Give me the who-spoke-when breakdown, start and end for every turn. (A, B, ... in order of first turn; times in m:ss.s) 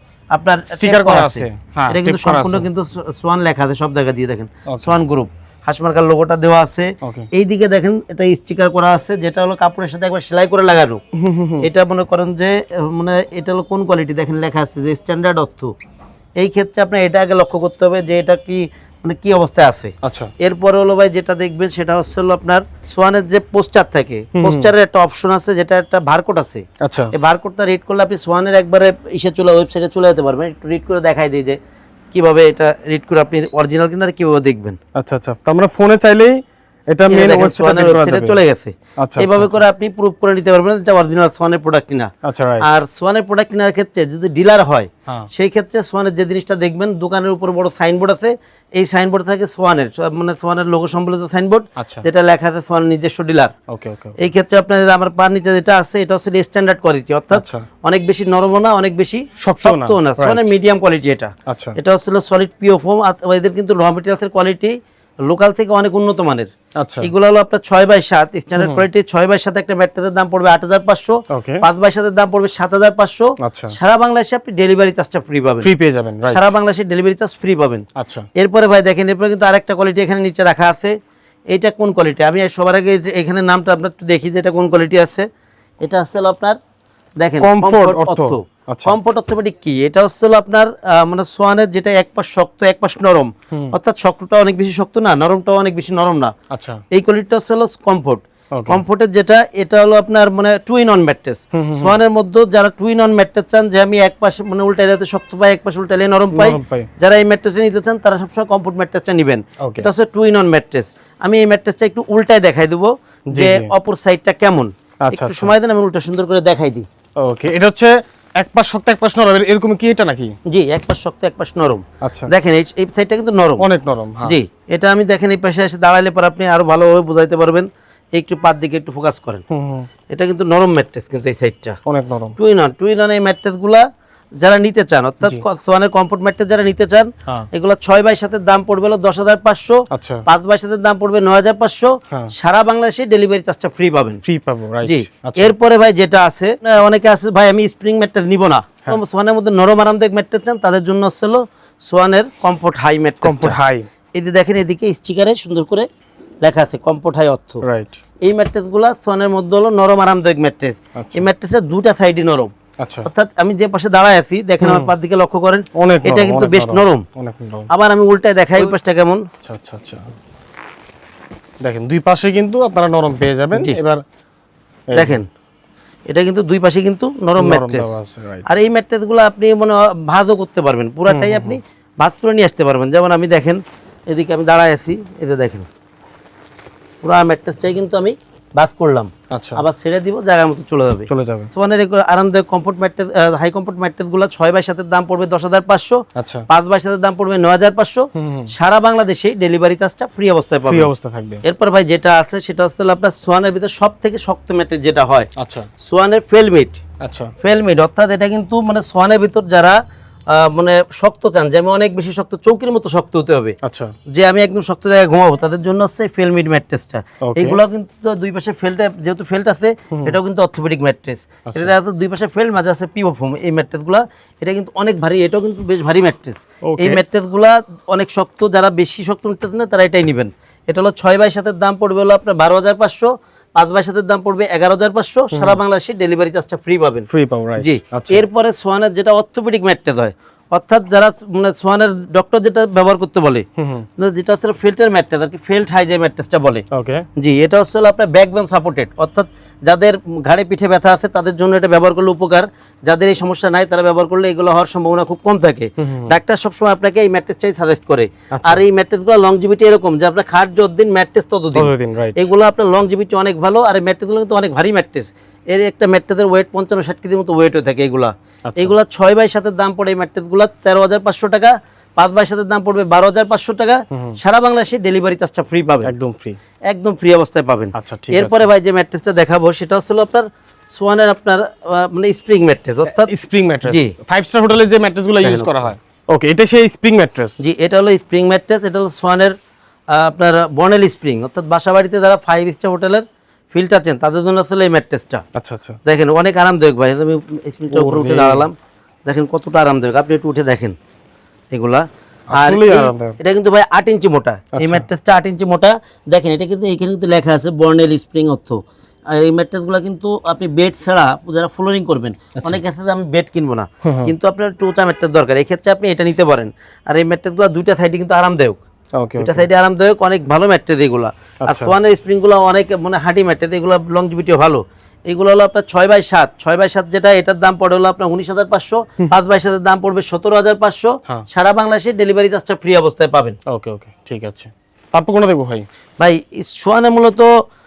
0:00.3-0:11.0 A
0:00.7-0:02.7 B
0:04.7-0:05.0 B
0:07.0-0:07.3 B
0:11.2-0:11.7 B
0:11.6-0:15.7 A
0:16.4-0:31.6 A
0:20.0-0:20.3 B
0:24.4-0:24.7 B
0:26.8-0:27.1 B
0:32.1-0:34.8 A
0:35.0-0:36.4 B
0:36.9-0:38.4 B
0:37.1-0:53.5 A
0:39.0-0:39.6 B
0:42.2-0:42.7 B
0:51.8-0:52.1 B
0:53.7-0:54.2 B
0:54.2-1:06.5 A
0:57.3-0:57.7 B
0:59.4-1:00.5 B
1:01.5-1:01.8 B
1:06.8-1:07.1 B
1:07.0-1:15.7 A
1:08.6-1:08.9 B
1:11.3-1:11.6 B
1:13.4-1:13.8 B
1:15.6-1:16.5 B
1:16.3-1:17.8 A
1:18.0-1:18.3 B
1:18.4-1:21.0 A
1:21.5-1:25.3 A
1:25.8-1:26.6 A
1:27.2-1:36.3 A
1:27.4-1:29.0 B
1:36.5-1:36.8 B
1:36.9-1:56.9 A
1:38.5-1:38.8 B
1:41.5-1:42.0 B
1:46.3-1:46.9 B
1:49.6-1:49.9 B
1:53.3-1:53.7 B
1:55.1-1:55.5 B
1:57.2-2:00.4 B
2:00.5-2:03.7 A
2:02.0-2:02.3 B
2:03.6-2:04.4 B
2:04.2-2:09.4 A
2:09.5-2:09.9 B
2:10.1-2:11.8 A
2:11.9-2:12.4 B
2:12.4-2:13.8 A
2:14.4-2:24.2 A
2:19.9-2:20.2 B
2:24.2-2:25.5 B
2:24.8-2:33.6 A
2:33.2-2:33.9 B
2:34.2-2:35.9 A
2:36.4-2:37.6 A
2:37.6-2:38.0 B
2:38.2-2:42.5 A
2:41.0-2:41.3 B
2:42.8-2:43.1 B
2:43.0-2:47.0 A
2:44.6-2:44.9 B
2:45.8-2:47.7 B
2:47.7-2:49.2 A
2:49.4-2:50.1 B
2:51.6-2:54.0 B
2:54.9-2:55.2 B
2:54.9-2:55.3 A
2:56.1-3:05.7 A
2:57.4-2:58.6 B
3:01.1-3:01.6 B
3:07.0-3:20.9 A
3:09.3-3:09.6 B
3:11.1-3:11.5 B
3:16.2-3:16.5 B
3:18.2-3:18.5 B
3:20.6-3:21.4 B
3:21.4-3:25.3 A
3:25.4-3:25.7 B
3:25.8-3:26.8 A
3:27.0-3:27.3 B
3:27.4-3:29.8 A
3:30.3-3:33.6 A
3:33.6-3:33.9 B
3:34.1-4:03.4 A
3:37.2-3:37.6 B
3:41.5-3:41.7 B
3:46.6-3:47.0 B
3:55.3-3:55.6 B
3:57.1-3:58.2 B
4:03.6-4:03.8 B
4:04.0-4:06.6 A
4:06.7-4:07.1 B
4:07.2-4:35.9 A
4:15.8-4:16.2 B
4:18.3-4:18.6 B
4:21.6-4:22.3 B
4:28.5-4:28.7 B
4:35.8-4:36.4 B
4:36.7-4:43.1 A
4:37.8-4:38.5 B
4:42.9-4:47.4 B
4:43.7-4:43.9 A
4:45.2-4:45.7 A
4:47.4-4:49.4 A
4:49.9-4:55.2 A
4:55.4-4:55.8 B
4:55.8-4:58.6 A
4:57.7-4:58.5 B
4:59.1-5:00.8 A
5:01.5-5:18.6 A
5:02.3-5:03.2 B
5:04.5-5:04.9 B
5:12.4-5:12.6 B
5:13.8-5:14.1 B
5:18.9-5:19.5 B
5:19.2-5:33.4 A
5:21.4-5:21.7 B
5:33.5-5:35.7 B
5:36.0-5:37.3 A